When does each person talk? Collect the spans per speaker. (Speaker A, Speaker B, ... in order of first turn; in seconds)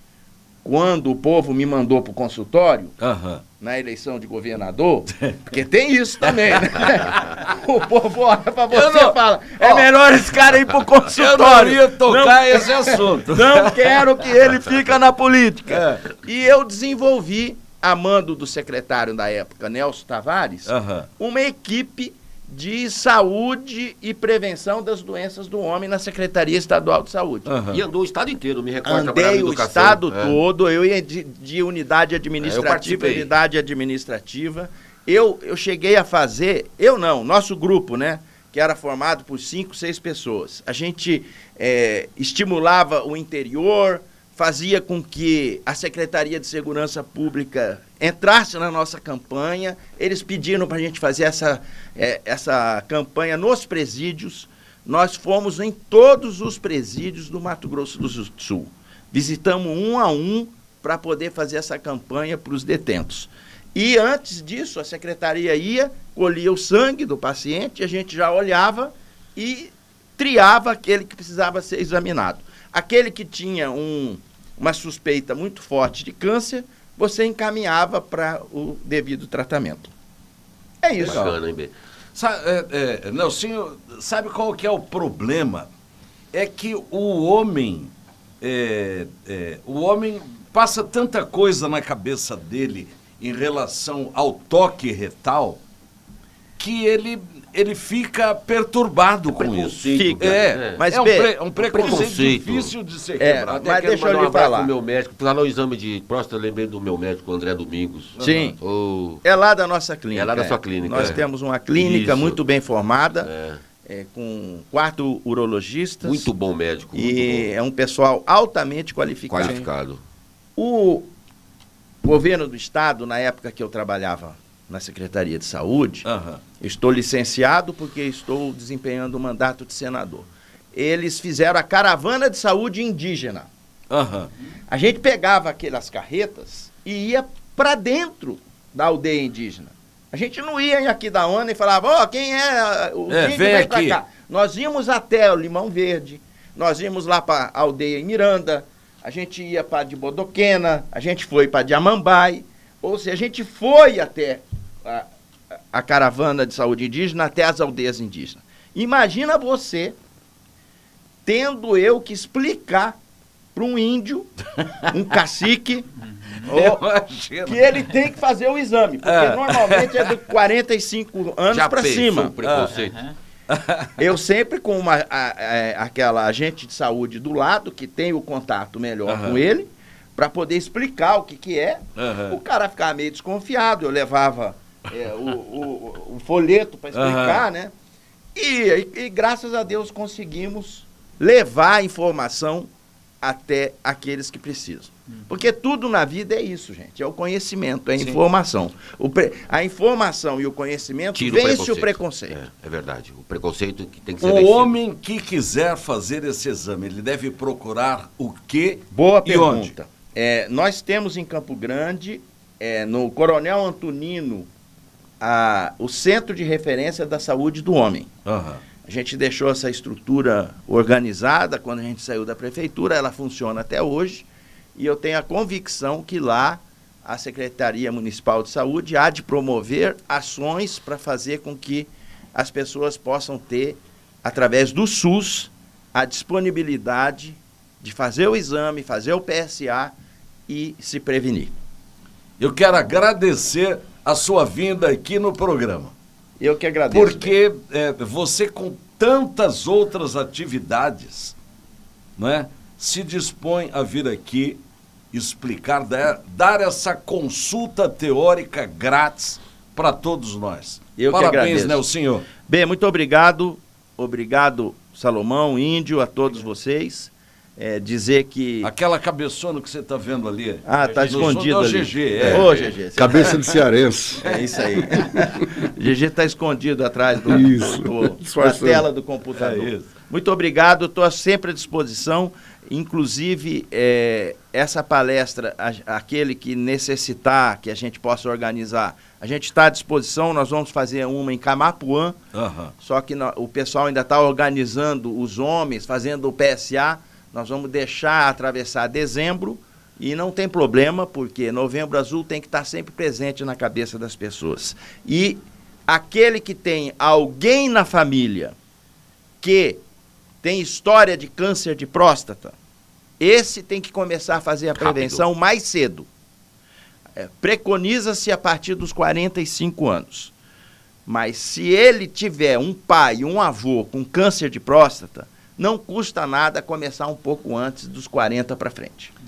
Speaker A: 0.6-2.9, 3.6-27.5, 28.8-79.9, 80.8-81.2, 99.9-102.1, 103.2-104.7, 108.2-108.6, 109.2-113.3, 113.8-116.3, 116.9-119.7, 120.6-121.1, 122.0-126.0, 126.6-133.5, 134.7-155.1, 155.7-159.9, 161.2-163.0, 163.5-164.3, 164.9-165.9, 166.4-166.8, 167.4-172.5, 174.0-187.7, 188.3-192.7, 193.2-202.4, 208.9-214.5, 215.2-218.1, 218.8-239.9, 240.5-241.6, 246.4-247.3, 261.0-261.8, 262.5-268.7, 270.6-273.6, 274.2-292.2, 292.8-308.5, 309.4-309.8, 310.4-312.6, 313.2-316.1, 317.2-320.3, 321.1-329.1
Speaker B: 3.0-3.4, 5.2-5.5, 8.7-9.9, 11.0-14.1, 15.7-16.0, 20.6-21.1, 27.4-27.8, 81.0-81.3, 82.1-85.7, 86.3-95.6, 96.6-103.5, 108.2-108.5, 126.0-126.4, 133.9-134.3, 143.1-144.0, 166.4-167.8, 169.0-170.2, 172.4-172.8, 173.5-174.0, 179.1-179.4, 182.0-182.4, 186.9-187.4, 204.2-209.7, 218.2-218.6, 242.4-245.9, 246.9-251.3, 252.2-254.6, 255.1-262.2, 268.6-272.6, 279.3-279.9, 292.3-292.7
Speaker C: 27.7-30.4, 32.4-33.3, 81.0-81.7, 99.4-100.8, 101.7-102.7, 103.4-109.2, 110.1-112.4, 113.2-113.6, 116.0-117.5, 119.3-120.0, 171.5-173.1, 201.1-204.7, 270.8-271.4, 272.3-272.7, 314.8-315.2
Speaker D: 272.9-274.2, 277.3-278.8